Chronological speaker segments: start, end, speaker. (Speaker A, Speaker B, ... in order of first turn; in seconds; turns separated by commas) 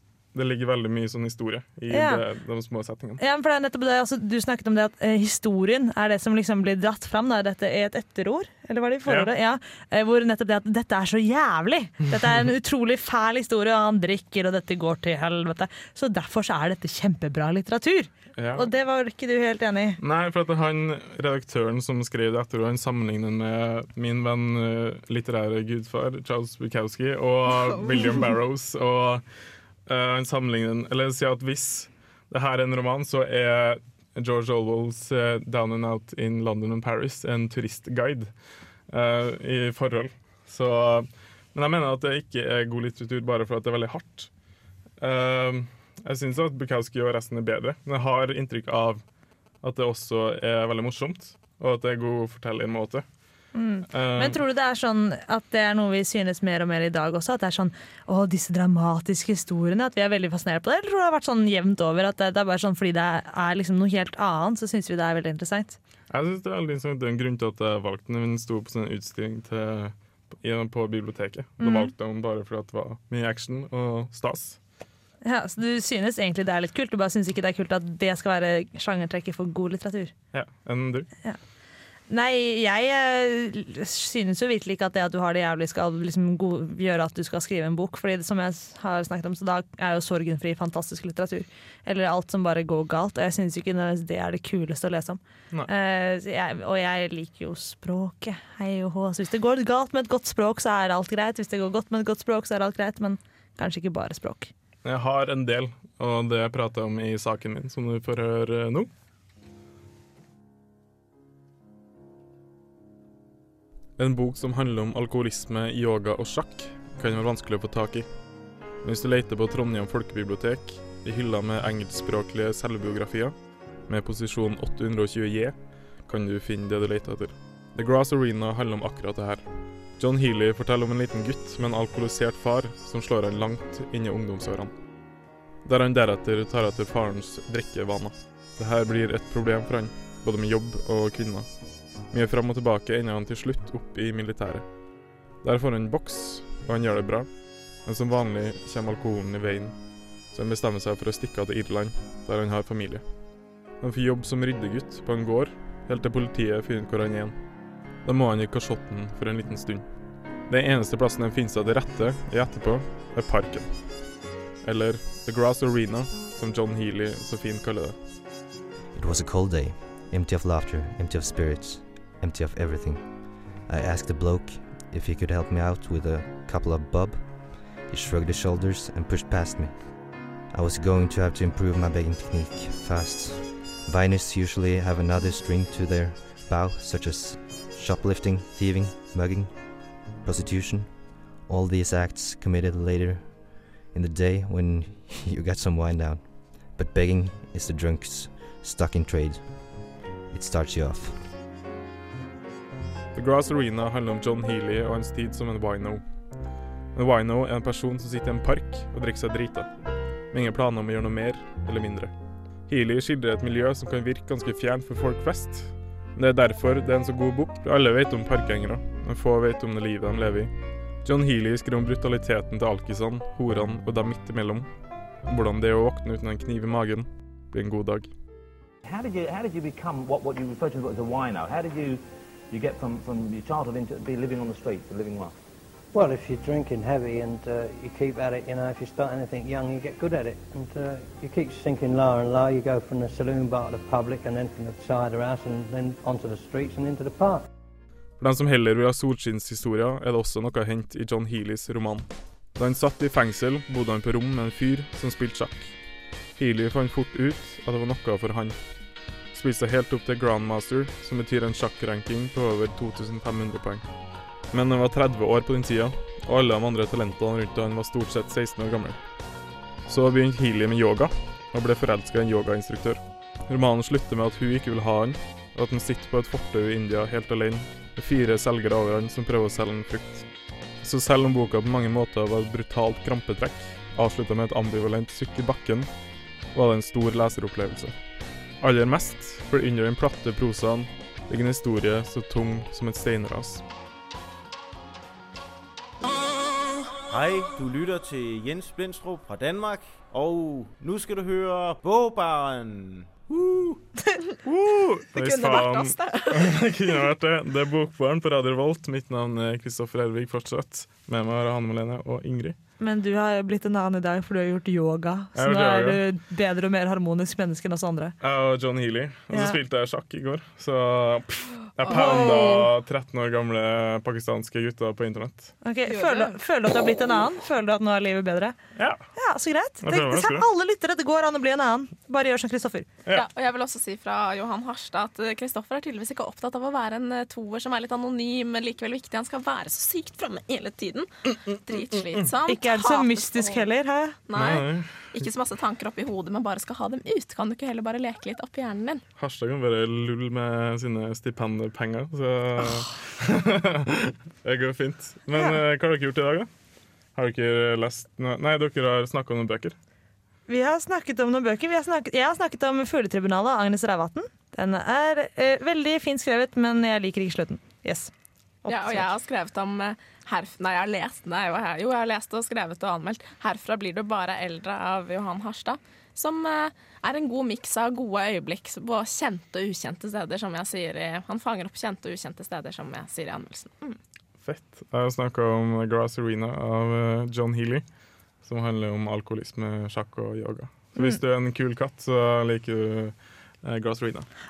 Speaker A: 0.3-3.2, Speaker B: 1.9-2.2, Speaker B: 3.2-20.0, Speaker A: 9.0-9.3, Speaker A: 18.4-18.7, Speaker A: 20.0-29.2, Speaker A: 29.9-38.3, Speaker A: 38.9-44.3, Speaker A: 45.0-49.0, Speaker A: 49.6-53.1, Speaker B: 53.5-65.8, Speaker A: 53.9-54.4, Speaker A: 66.1-74.6, Speaker B: 71.6-71.9, Speaker B: 75.2-80.1, Speaker A: 80.3-81.1, Speaker B: 82.1-104.5, Speaker A: 104.8-108.9, Speaker A: 114.0-118.1, Speaker A: 118.8-129.4, Speaker A: 129.9-134.7, Speaker A: 135.6-144.7, Speaker A: 145.4-153.1, Speaker A: 153.8-157.3, Speaker A: 158.0-159.9, Speaker A: 160.5-164.1, Speaker A: 164.6-168.0, Speaker C: 168.9-201.3, Speaker A: 203.1-206.0, Speaker A: 206.9-209.7, Speaker A: 210.3-212.1, Speaker A: 212.7-220.5, Speaker A: 221.0-224.7, Speaker A: 225.2-228.1, Speaker D: 228.9-235.3, Speaker E: 235.9-247.4, Speaker A: 248.2-255.8, Speaker A: 256.4-258.6, Speaker A: 259.3-263.8, Speaker A: 264.5-269.0, Speaker A: 269.9-280.3, Speaker A: 280.8-285.9, Speaker A: 286.5-287.9, Speaker A: 288.6-293.6, Speaker F: 297.1-303.8, Speaker A: 304.4-312.6, Speaker G: 305.1-306.6, Speaker B: 312.8-318.2, Speaker A: 315.3-316.0, Speaker A: 318.2-325.6, Speaker B: 319.3-319.6, Speaker G: 321.8-322.6, Speaker B: 321.9-322.7, Speaker B: 325.6-328.6, Speaker G: 325.9-326.4, Speaker A: 328.8-329.0, Speaker B: 329.2-332.9, Speaker A: 329.8-330.4, Speaker G: 333.1-343.6, Speaker B: 342.4-344.2, Speaker G: 344.3-349.0, Speaker A: 344.3-345.3, Speaker A: 349.2-356.5, Speaker A: 357.1-359.7, Speaker B: 360.5-368.1, Speaker B: 368.6-369.1, Speaker G: 368.7-384.0, Speaker A: 384.4-387.8, Speaker A: 388.4-394.3